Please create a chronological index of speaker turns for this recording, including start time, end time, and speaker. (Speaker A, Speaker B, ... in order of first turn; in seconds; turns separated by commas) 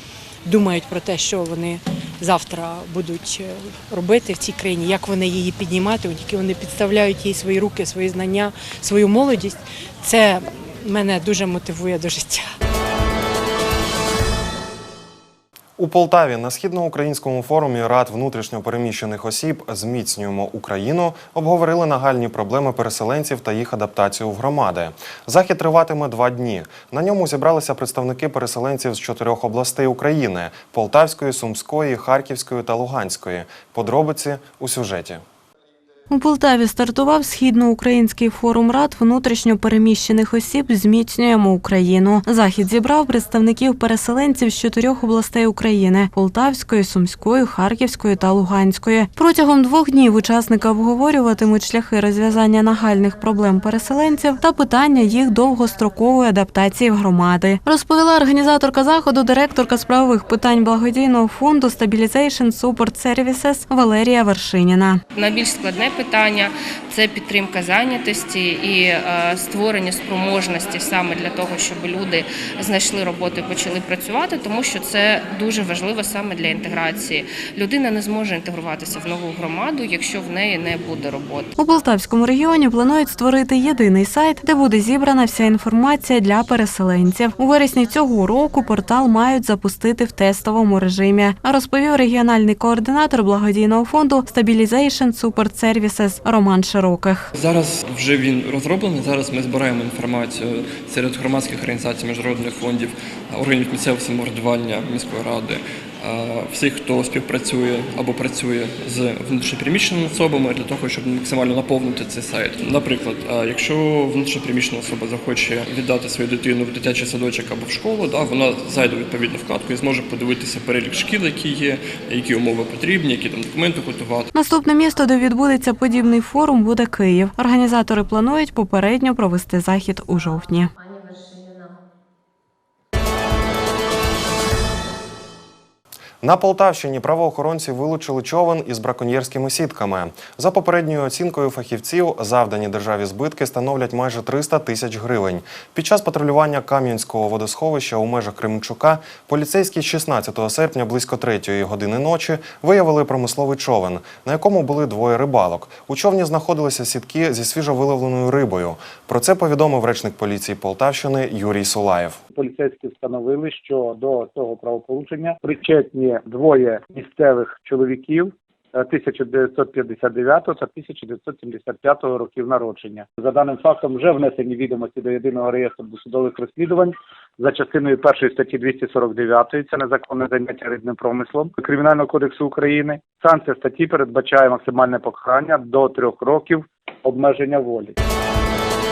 Speaker A: 0.5-12.5, Speaker B: 15.8-35.2, Speaker C: 36.1-65.0, Speaker D: 65.2-81.5, Speaker C: 81.6-97.3, Speaker E: 97.4-124.3, Speaker C: 124.3-130.7, Speaker B: 136.2-162.2, Speaker F: 162.3-187.9